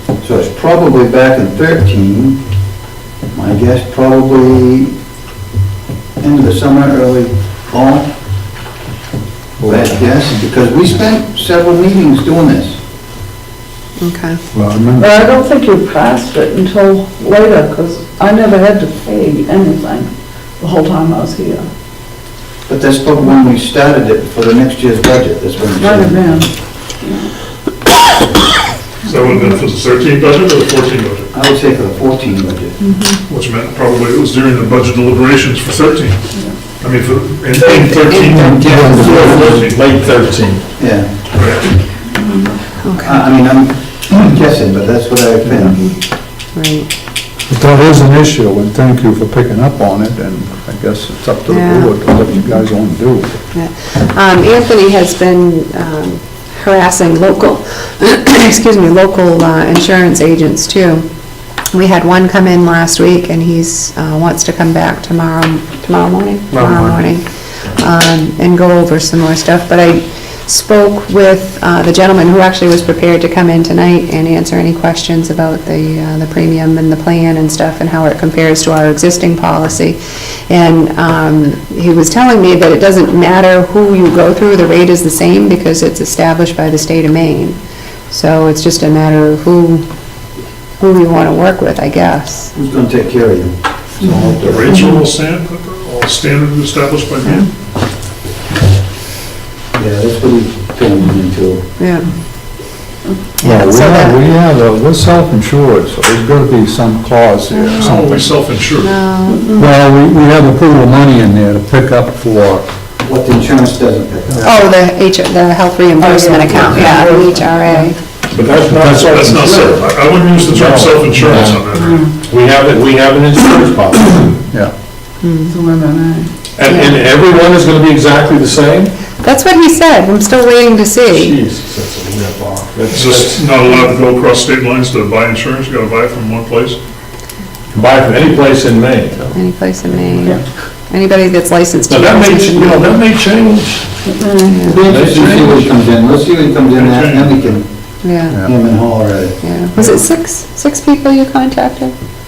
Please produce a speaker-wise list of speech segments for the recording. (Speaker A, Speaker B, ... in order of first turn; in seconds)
Speaker A: 0.2-2.4, 3.3-4.9, 6.2-8.1, 9.6-12.8, 22.7-26.2, 31.3-32.8, 39.0-39.3, 40.8-41.3, 43.0-45.9, 92.5-94.8, 99.8-101.7, 113.0-114.5, 144.6-147.7, 148.4-149.4
Speaker B: 9.6-9.9, 14.5-15.1, 38.3-39.7, 47.5-53.4, 103.4-108.2, 109.6-112.7, 114.3-114.6, 118.7-119.8
Speaker C: 14.0-14.4, 38.2-39.0, 42.8-43.2, 46.5-46.9, 51.5-51.9, 53.5-61.0, 61.7-67.2, 67.8-80.0, 80.5-87.6, 88.1-89.8, 90.8-92.5, 94.7-95.0, 101.8-102.1, 103.4-104.2, 107.5-108.0, 108.8-109.6, 114.4-118.0, 125.2-125.5, 126.6-127.1, 129.1-131.4, 139.3-142.9, 144.5-144.9, 148.0-148.4, 149.4-151.9
Speaker D: 15.0-21.7, 25.7-27.3, 29.1-29.6, 32.8-33.2, 42.0-42.7, 109.3-109.6, 116.0-117.9, 121.7-122.2, 125.5-126.3, 144.1-144.7
Speaker E: 29.1-31.3, 33.3-36.2, 36.8-38.7, 39.2-39.8, 41.4-41.6, 94.5-97.4, 107.9-108.9, 119.2-121.8, 132.9-136.8, 146.8-147.3
Speaker F: 38.7-40.7, 118.3-119.9, 120.6-121.6, 122.2-124.4, 126.6-128.9, 131.2-133.5, 137.7-139.2, 141.9-143.8, 144.9-145.7